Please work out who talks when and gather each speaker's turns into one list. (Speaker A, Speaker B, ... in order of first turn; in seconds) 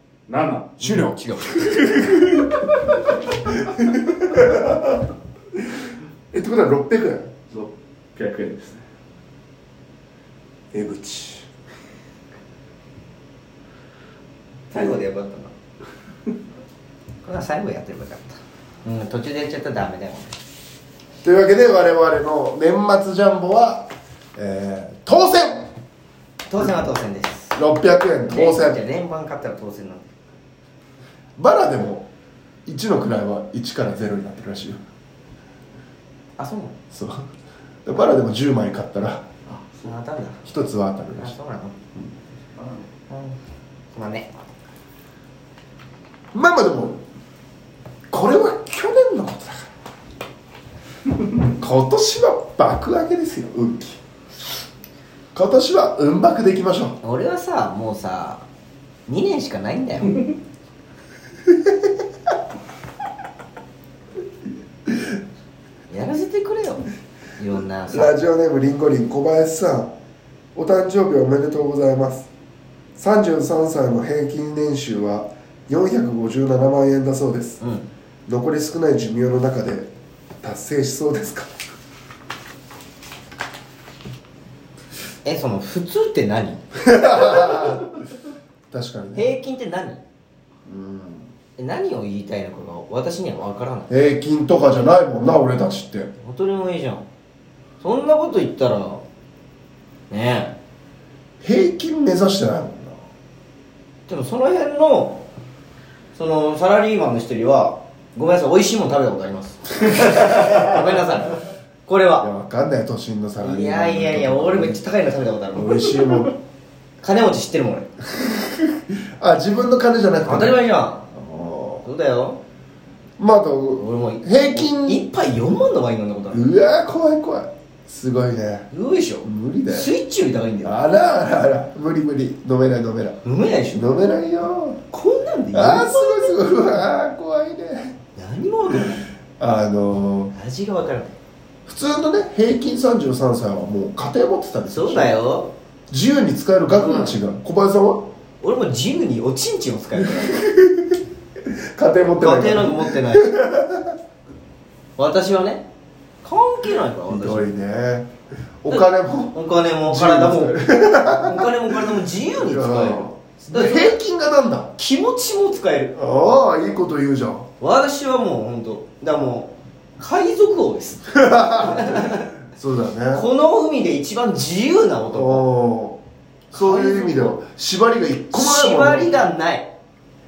Speaker A: 0.3-0.9, 7.5-8.8, 39.5-39.9, 42.5-42.9
Speaker B: 0.8-2.6, 3.5-5.0, 6.3-7.3, 10.7-11.5, 21.2-25.7, 27.5-28.8, 31.4-32.1, 32.6-34.8, 36.9-37.3, 37.9-39.2, 40.4-41.3, 46.3-47.0, 48.1-49.7, 51.5-54.0, 55.3-57.0, 61.5-61.9, 67.9-69.9, 70.5-72.3, 73.0-77.6, 78.3-79.9, 80.4-81.5, 86.8-87.8, 88.7-89.3, 90.7-91.2, 93.9-96.1, 101.4-103.0, 112.2-114.8, 115.5-116.3, 118.2-120.6, 121.1-121.8, 123.2-125.0, 126.3-128.7, 129.2-129.9, 130.6-133.2, 133.7-134.8, 135.5-137.9, 139.4-140.3, 141.7-145.1, 145.9-148.1, 150.1-151.0, 151.5-153.9, 157.1-158.1, 158.6-161.5, 162.3-164.7, 165.9-167.5, 171.1-173.2, 175.1-176.0, 176.5-179.2
Speaker C: 0.8-2.2, 14.7-15.5, 17.2-20.4, 26.5-27.6, 28.3-30.1, 36.4-36.8, 39.8-40.4, 41.1-41.8, 43.1-43.4, 43.9-44.3, 57.0-58.4, 59.1-60.2, 65.9-66.8, 67.4-68.1, 77.6-77.9, 85.2-87.6, 89.1-90.0, 91.6-93.9, 96.2-97.0, 97.8-99.0, 100.1-100.5, 104.1-105.2, 106.1-112.3, 113.4-115.9, 117.0-117.9, 120.2-121.1, 121.8-122.4, 123.8-126.5, 128.7-130.8, 133.2-133.8, 134.9-136.5, 138.2-139.1, 140.3-141.2, 144.7-145.5, 146.8-147.1, 148.4-150.4, 152.2-153.3, 155.0-155.7, 156.2-157.5, 158.7-163.9, 164.8-165.9, 167.6-172.3, 173.1-175.4, 176.5-177.4, 178.3-179.7